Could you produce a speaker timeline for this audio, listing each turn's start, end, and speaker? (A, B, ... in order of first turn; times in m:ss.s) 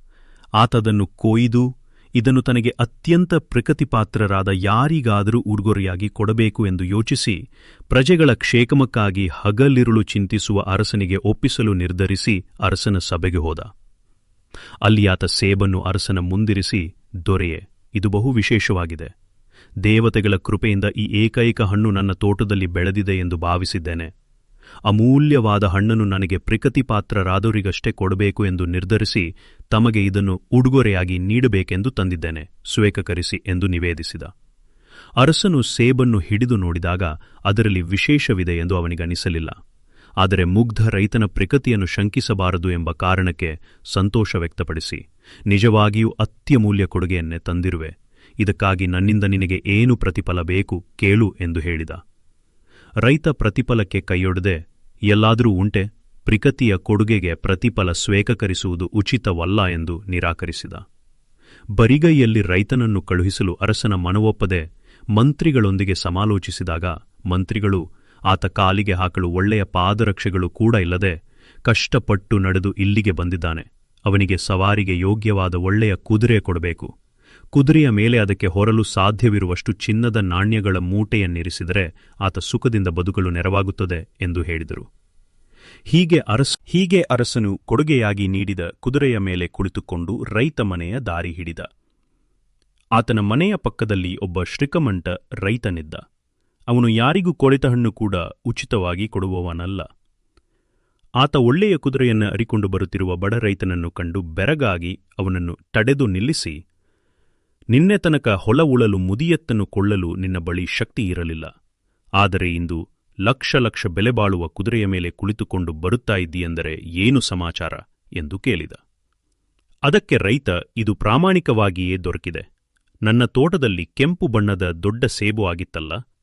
0:00.6-0:01.6 A
0:02.2-0:07.4 A
0:07.9-0:13.7 A
0:14.8-0:19.1 A
0:19.8-0:24.1 A
0:24.9-0:34.3 A
0:35.2-0:39.5 A
0:40.2-0:52.0 A
0:53.0-0:54.6 A
0:55.1-1:00.8 A
1:01.8-1:04.6 A
1:05.2-1:11.1 A
1:11.7-1:16.9 A
1:17.6-1:24.9 A
1:25.9-1:31.7 A
1:33.0-1:36.0 A
1:36.7-1:39.8 A
1:41.2-1:46.6 A
1:47.7-1:51.5 A
1:52.2-1:58.8 A
1:59.9-2:02.4 A
2:03.1-2:06.0 A